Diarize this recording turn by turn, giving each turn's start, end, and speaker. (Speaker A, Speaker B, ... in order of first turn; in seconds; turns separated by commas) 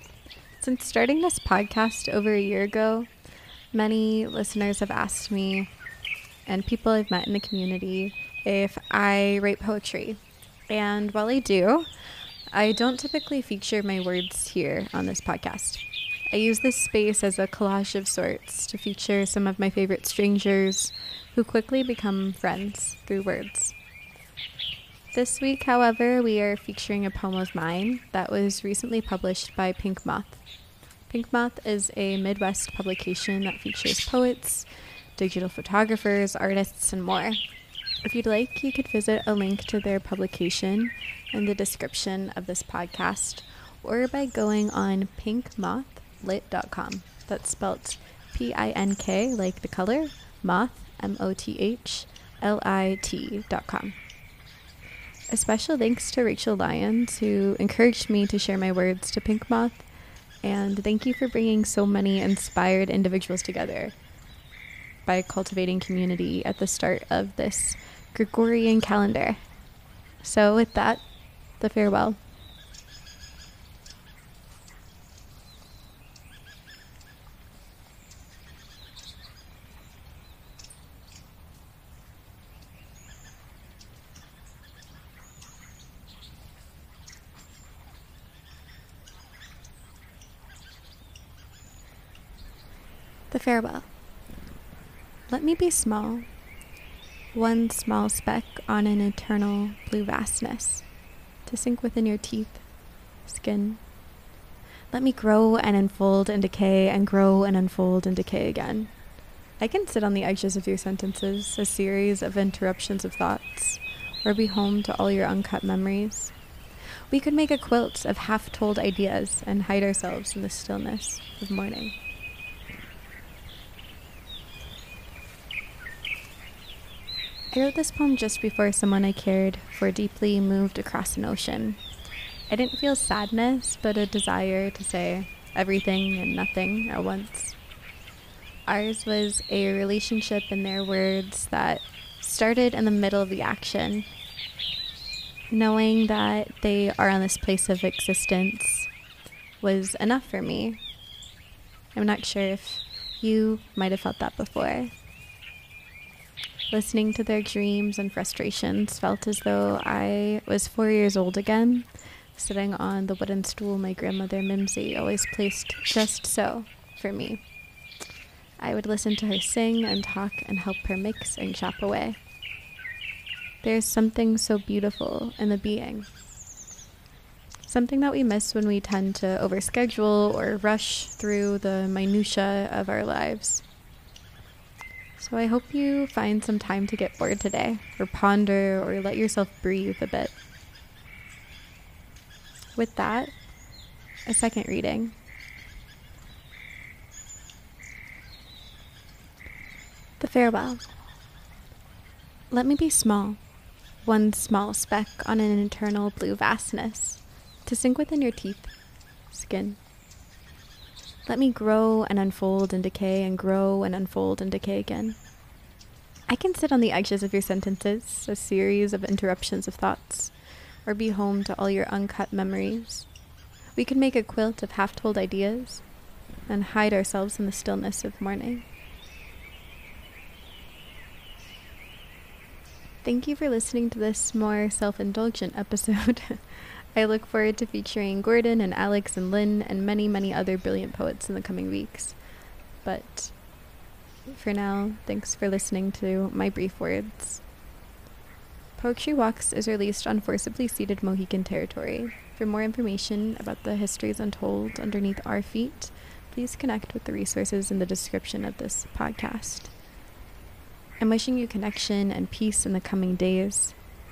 Speaker A: 0.6-3.1, Speaker A: 3.7-5.7, Speaker A: 6.5-11.9, Speaker A: 12.5-23.8, Speaker A: 25.1-30.4, Speaker A: 31.1-37.4, Speaker A: 38.0-54.0, Speaker A: 55.3-59.9, Speaker A: 60.4-64.0, Speaker A: 65.1-69.4, Speaker A: 70.2-71.0, Speaker A: 71.6-72.2, Speaker A: 93.3-93.9, Speaker A: 95.3-96.3, Speaker A: 97.3-100.8, Speaker A: 101.5-102.6, Speaker A: 103.2-103.8, Speaker A: 104.9-108.9, Speaker A: 109.6-116.3, Speaker A: 117.1-122.0, Speaker A: 127.5-131.8, Speaker A: 132.5-137.6, Speaker A: 138.7-144.1, Speaker A: 145.5-148.9, Speaker A: 149.6-150.8, Speaker A: 151.9-154.9, Speaker A: 156.7-167.4, Speaker A: 168.6-172.2, Speaker A: 173.6-176.1, Speaker A: 177.7-183.6, Speaker A: 185.2-190.4, Speaker A: 192.8-193.3, Speaker A: 194.3-195.2, Speaker A: 200.2-200.8, Speaker A: 202.5-203.4, Speaker A: 204.0-208.7, Speaker A: 209.3-209.8, Speaker A: 211.3-215.2, Speaker A: 216.3-223.1, Speaker A: 223.8-225.8, Speaker A: 226.5-228.7, Speaker A: 233.0-242.2, Speaker A: 242.8-243.3, Speaker A: 244.3-247.4, Speaker A: 248.8-259.7, Speaker A: 261.0-263.8